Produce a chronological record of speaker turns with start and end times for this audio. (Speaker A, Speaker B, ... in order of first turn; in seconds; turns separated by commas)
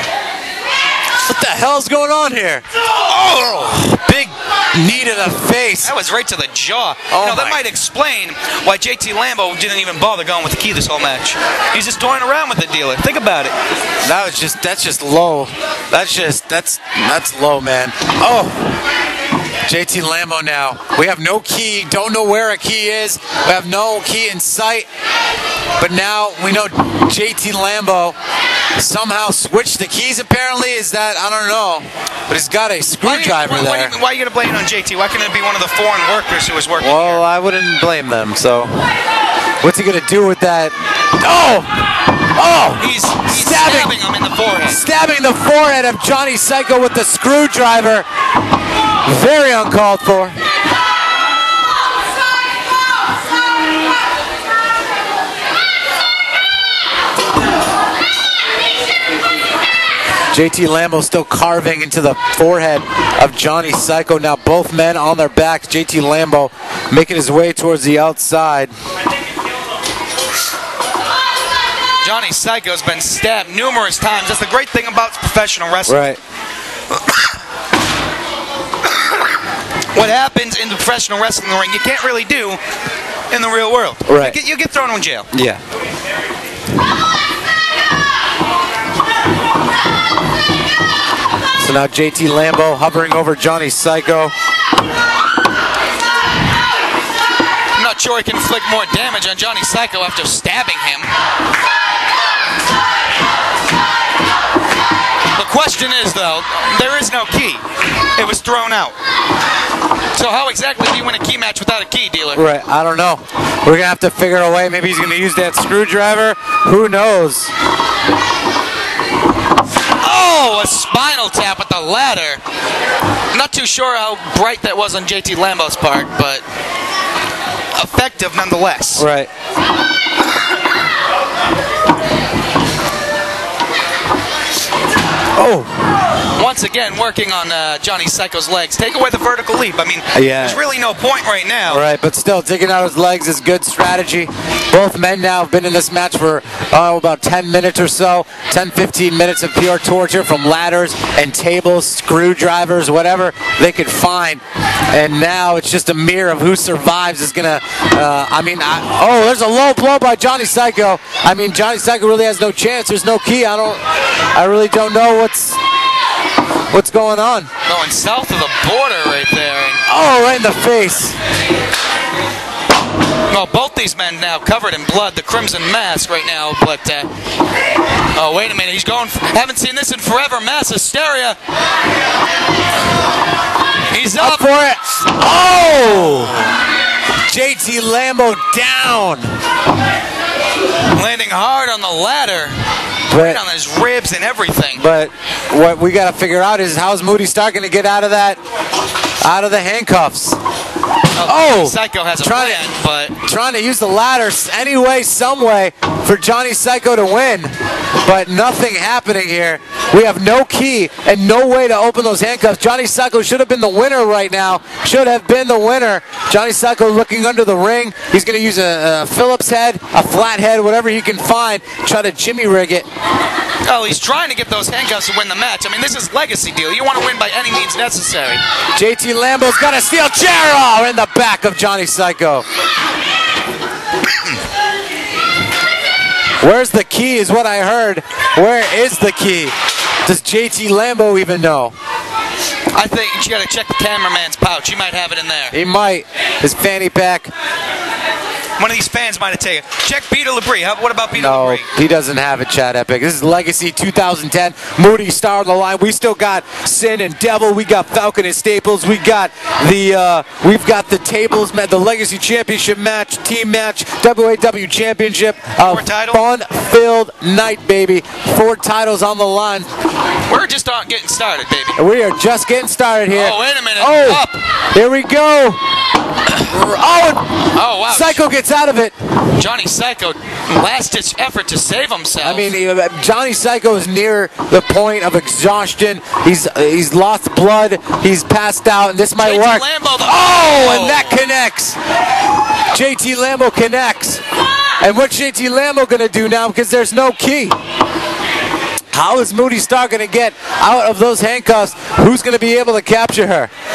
Speaker A: 1.2-2.6, Speaker B: 3.1-3.8, Speaker A: 3.7-5.9, Speaker B: 5.8-13.6, Speaker A: 7.1-7.6, Speaker A: 14.0-18.7, Speaker A: 19.7-24.9, Speaker A: 25.8-28.2, Speaker A: 28.8-33.9, Speaker B: 33.0-37.2, Speaker A: 36.8-38.9, Speaker A: 39.6-44.0, Speaker B: 42.8-44.8, Speaker A: 44.7-48.1, Speaker A: 49.0-50.4, Speaker A: 60.3-68.7, Speaker B: 72.0-76.0, Speaker A: 75.9-76.2, Speaker B: 79.9-82.6, Speaker B: 83.3-85.3, Speaker A: 84.1-84.4, Speaker A: 85.3-85.6, Speaker A: 91.6-94.3, Speaker B: 97.8-101.1, Speaker B: 105.3-107.7, Speaker B: 108.2-109.0, Speaker B: 110.2-112.5, Speaker A: 112.3-117.5, Speaker B: 120.0-122.4, Speaker B: 123.3-126.4, Speaker B: 127.7-129.1, Speaker A: 129.0-129.3, Speaker A: 135.4-135.8, Speaker B: 136.4-141.8, Speaker A: 140.1-140.6, Speaker A: 141.7-165.6, Speaker A: 166.7-167.5, Speaker B: 167.7-169.8, Speaker A: 169.9-171.2, Speaker B: 173.3-177.1, Speaker B: 178.1-181.4, Speaker B: 183.9-184.5, Speaker A: 184.1-186.4, Speaker A: 187.3-189.4, Speaker B: 190.9-192.6, Speaker A: 193.1-193.4, Speaker B: 193.1-194.8, Speaker A: 194.8-198.4, Speaker A: 199.2-200.4, Speaker B: 201.2-203.1, Speaker A: 201.2-222.9, Speaker B: 223.6-228.4, Speaker A: 228.7-232.5, Speaker A: 236.4-241.8, Speaker B: 242.7-245.6, Speaker A: 245.5-247.3, Speaker B: 248.6-251.7, Speaker A: 251.2-269.7, Speaker B: 265.6-266.2, Speaker B: 270.3-271.8, Speaker A: 271.8-275.6, Speaker B: 273.1-274.4, Speaker A: 276.5-278.9, Speaker B: 277.5-278.2, Speaker B: 279.4-282.5, Speaker A: 282.2-291.8, Speaker B: 289.2-291.2, Speaker A: 292.7-294.2, Speaker A: 294.8-297.6, Speaker A: 298.9-303.5